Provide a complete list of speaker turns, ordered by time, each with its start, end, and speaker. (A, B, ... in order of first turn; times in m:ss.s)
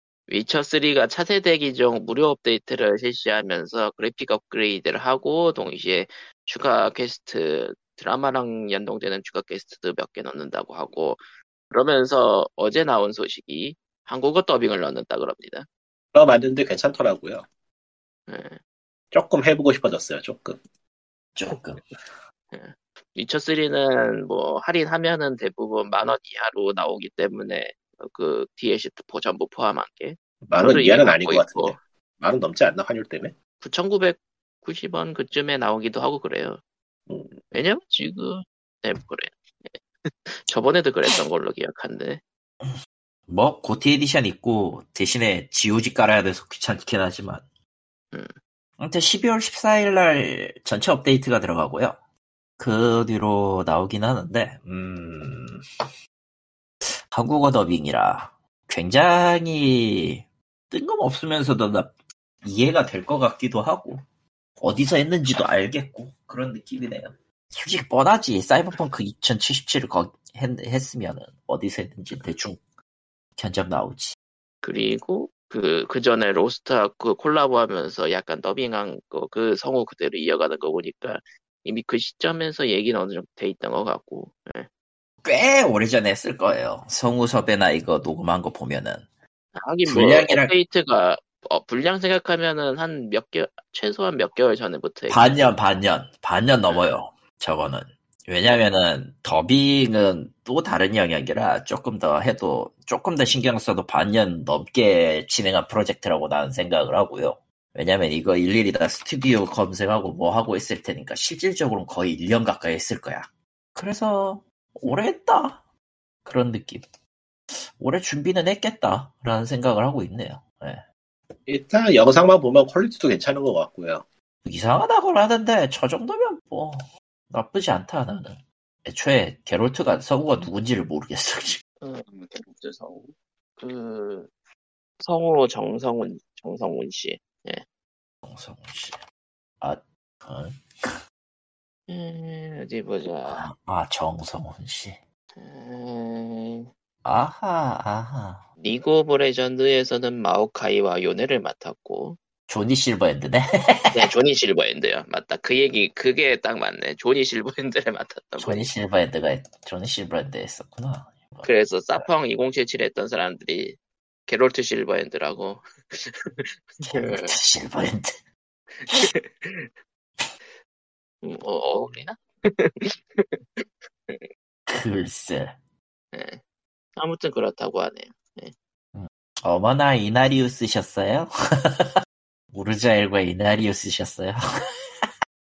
0:00.3-0:15.7 A
0:16.1-0:17.4 B
0:18.3-0:18.6 A
0:19.1-0:20.6 B
0:21.4-0:21.8 C
0:22.5-0:31.8 A
0:30.5-0:33.3 B
0:33.6-0:36.6 A
0:37.1-0:37.3 B
0:37.5-0:42.2 A
0:43.3-0:47.4 C
0:48.8-0:52.0 C
0:52.6-0:55.6 C
0:57.1-1:01.9 C
1:02.4-1:04.0 C
1:04.6-1:12.6 C
1:13.4-1:14.1 C
1:14.6-1:24.7 A
1:25.2-1:29.0 C
1:29.6-1:35.5 A
1:29.8-1:30.5 C
1:35.1-1:55.6 C
1:56.2-1:56.8 C
1:57.5-2:00.8 C
2:01.5-2:04.0 B
2:04.4-2:11.6 C
2:11.8-2:14.3 A
2:15.0-2:17.6 A
2:18.2-2:19.0 C
2:19.6-2:21.0 C
2:21.9-2:23.4 A
2:23.3-2:25.0 C
2:25.4-2:26.7 A
2:27.0-2:28.4 C
2:28.6-2:32.2 A
2:32.5-2:34.0 C
2:33.9-2:38.7 A
2:38.4-2:42.0 C
2:41.4-2:47.3 A
2:46.8-2:48.2 C
2:48.8-2:49.7 A
2:51.2-2:54.2 A
2:54.7-2:55.6 C
2:56.1-2:56.4 A
2:57.0-2:58.5 A
2:58.9-3:01.9 C
3:02.5-3:05.1 C